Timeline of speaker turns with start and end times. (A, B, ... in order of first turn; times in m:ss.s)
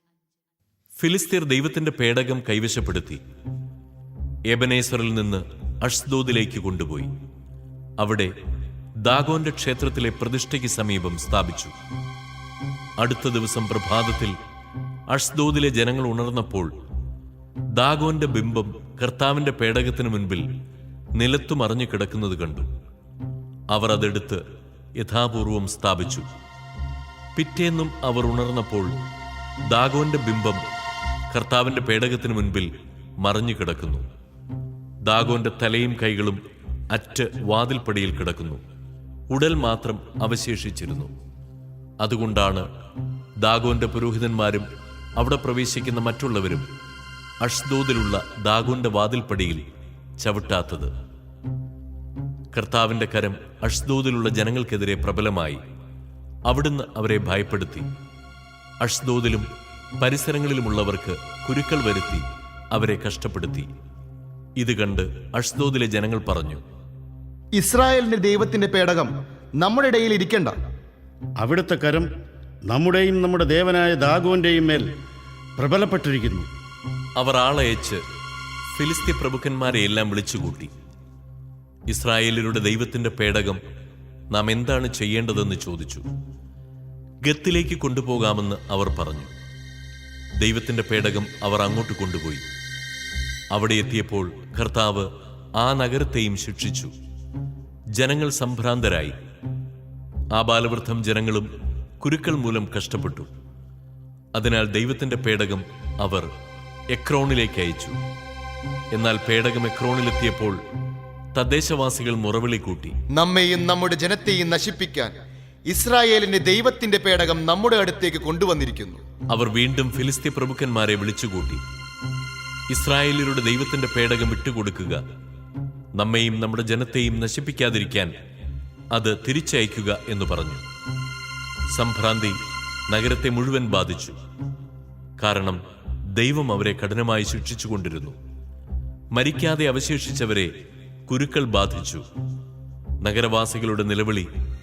0:01.0-0:03.2 A
0:04.5-0:07.1 A
0:08.0-0:08.3 A
0:09.0-0:11.7 A
0:13.0-0:14.4 A
0:15.1-0:16.7 A
0:17.7-0:20.5 A
0:21.2-0:22.7 A
0:23.7-0:24.4 A
0:25.0-0:26.3 A
0:27.3-0:29.0 A
0:29.7-0:30.6 A
0:31.3-0:34.0 A
0:35.0-0:38.6 A
0:39.3-0:41.1 A
0:42.0-0:42.6 A
0:43.4-0:46.7 A
0:47.4-0:49.6 A
0:50.2-0:50.9 A
0:52.5-0:55.6 A
0:56.4-0:57.9 A
0:58.8-0:59.5 A
1:00.0-1:03.7 A
1:04.6-1:06.6 A
1:07.5-1:10.6 B
1:11.4-1:12.1 C
1:12.7-1:14.9 C
1:15.6-1:16.5 C
1:17.2-1:18.0 A
1:18.7-1:20.7 A
1:21.9-1:23.6 A
1:24.3-1:26.0 A
1:27.2-1:29.3 A
1:30.4-1:32.4 A
1:33.5-1:36.9 A
1:38.0-1:39.2 A
1:40.3-1:43.3 A
1:44.3-1:46.3 A
1:46.9-1:48.0 A
1:48.9-1:50.6 A
1:51.3-1:53.0 A
1:53.1-1:55.1 B
1:55.7-1:59.0 B
1:59.3-2:01.6 A
2:02.7-2:05.0 A
2:06.0-2:08.1 A
2:08.9-2:10.6 A
2:11.7-2:14.2 A
2:15.2-2:15.6 A
2:16.1-2:18.2 A
2:19.1-2:20.5 A
2:21.1-2:22.0 A
2:23.0-2:24.3 A